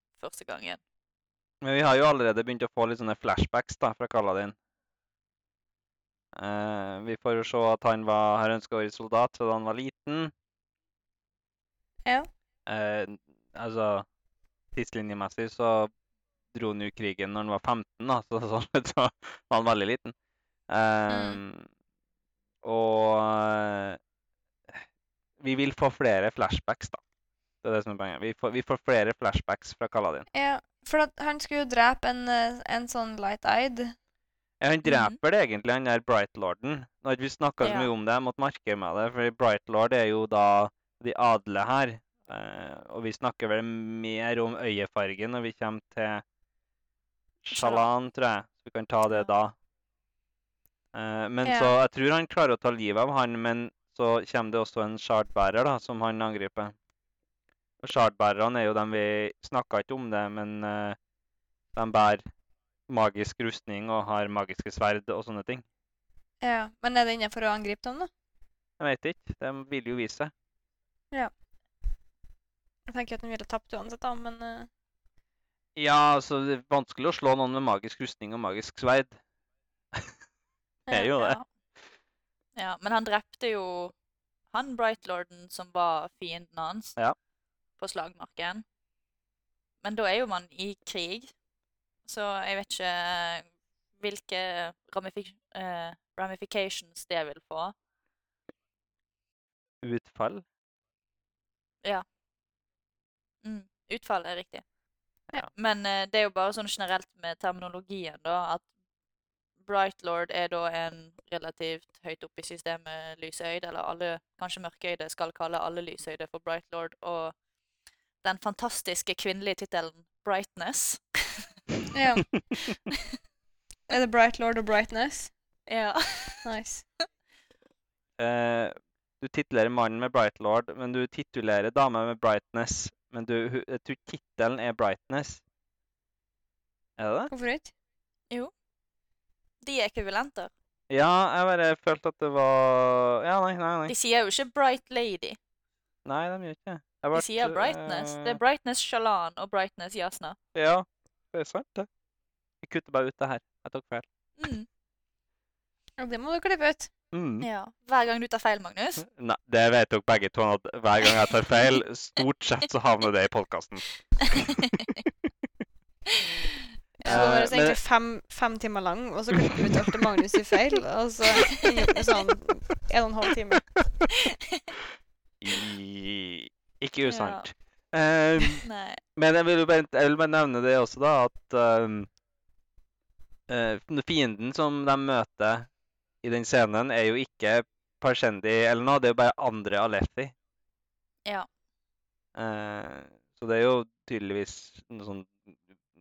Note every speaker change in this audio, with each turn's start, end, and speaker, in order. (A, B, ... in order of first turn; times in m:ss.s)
0:00.2-0:00.8 A
0:01.6-0:04.6 B
0:06.3-0:10.3 B
0:12.7-0:14.1 B
0:14.7-0:15.9 B
0:16.5-0:20.1 B
0:20.7-0:21.7 B
0:21.1-0:21.4 C
0:22.6-0:24.0 B
0:25.4-0:27.0 B
0:27.6-0:30.3 B
0:30.3-0:34.0 C
0:34.6-0:46.2 B
0:34.8-0:35.2 A
0:37.6-0:37.9 A
0:47.4-0:49.6 B
0:47.5-0:47.8 A
0:50.9-0:56.7 B
0:51.4-0:51.7 C
0:57.8-1:01.0 B
1:01.8-1:02.2 B
1:02.9-1:05.6 B
1:06.4-1:08.1 C
1:08.8-1:10.3 B
1:12.9-1:14.7 C
1:15.8-1:19.2 B
1:20.9-1:21.2 C
1:20.9-1:21.4 B
1:21.1-1:21.5 A
1:22.6-1:24.0 A
1:24.5-1:27.0 A
1:27.8-1:28.6 A
1:29.8-1:31.3 A
1:32.0-1:37.7 A
1:39.8-1:40.4 B
1:43.4-1:44.6 A
1:45.5-1:48.7 A
1:49.7-1:57.4 A
1:58.2-2:01.5 A
2:01.9-2:02.4 C
2:03.9-2:05.3 C
2:05.7-2:06.5 A
2:06.4-2:06.8 C
2:08.2-2:15.4 B
2:17.0-2:17.3 B
2:17.3-2:17.7 C
2:19.6-2:20.5 A
2:20.9-2:23.9 B
2:23.9-2:25.4 A
2:26.0-2:28.4 B
2:27.1-2:30.4 A
2:30.5-2:31.9 B
2:32.6-2:34.1 B
2:34.4-2:34.7 A
2:36.0-2:36.9 C
2:37.1-2:37.5 B
2:37.4-2:39.0 A
2:39.1-2:43.9 B
2:44.4-2:45.0 A
2:46.2-2:46.5 A
2:47.0-2:53.8 C
2:47.1-2:47.8 B
2:54.1-2:54.6 A
2:55.4-3:02.1 B
2:57.1-2:57.5 A
2:58.6-2:59.0 A
3:03.5-3:05.7 B
3:06.2-3:10.3 B
3:12.4-3:15.6 B